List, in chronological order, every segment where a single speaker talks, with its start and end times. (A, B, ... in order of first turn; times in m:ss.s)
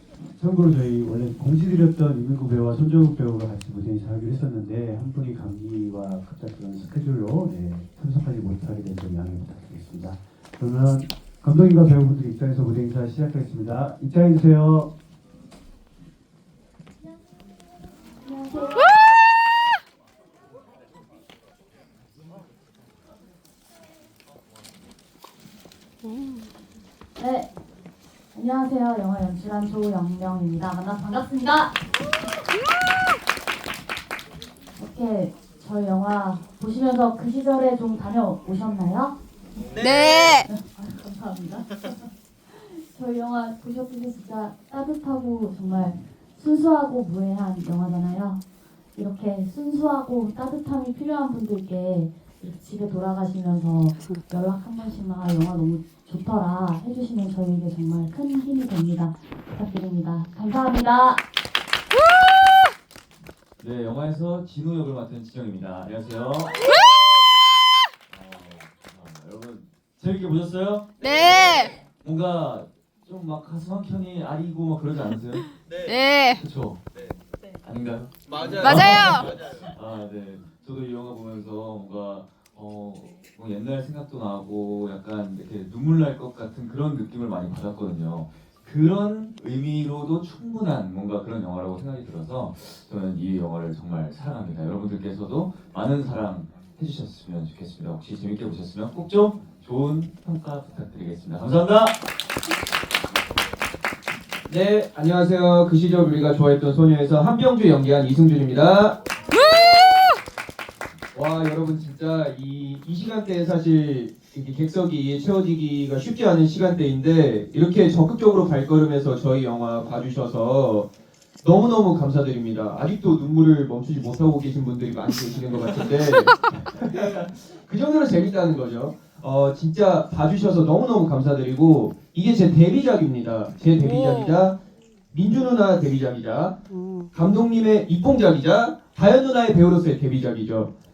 0:00.4-0:14.9 A
0:18.2-0:18.9 B
0:27.2-0:27.5 B
0:28.3-0:31.8 B
0:34.8-0:39.2 B
0:39.7-0:41.9 B
0:39.8-0:40.4 C
0:42.7-0:48.4 B
0:49.0-1:01.2 B
1:03.6-1:06.6 D
1:08.1-1:10.9 D
1:11.0-1:11.7 C
1:12.0-1:15.5 D
1:15.8-1:16.4 C
1:16.3-1:16.8 D
1:17.6-1:42.0 D
1:18.3-1:19.6 E
1:18.6-1:19.3 C
1:44.5-1:49.0 E
1:51.1-2:00.9 E
2:01.4-2:14.6 E
2:15.1-2:16.6 E
2:17.1-2:20.7 E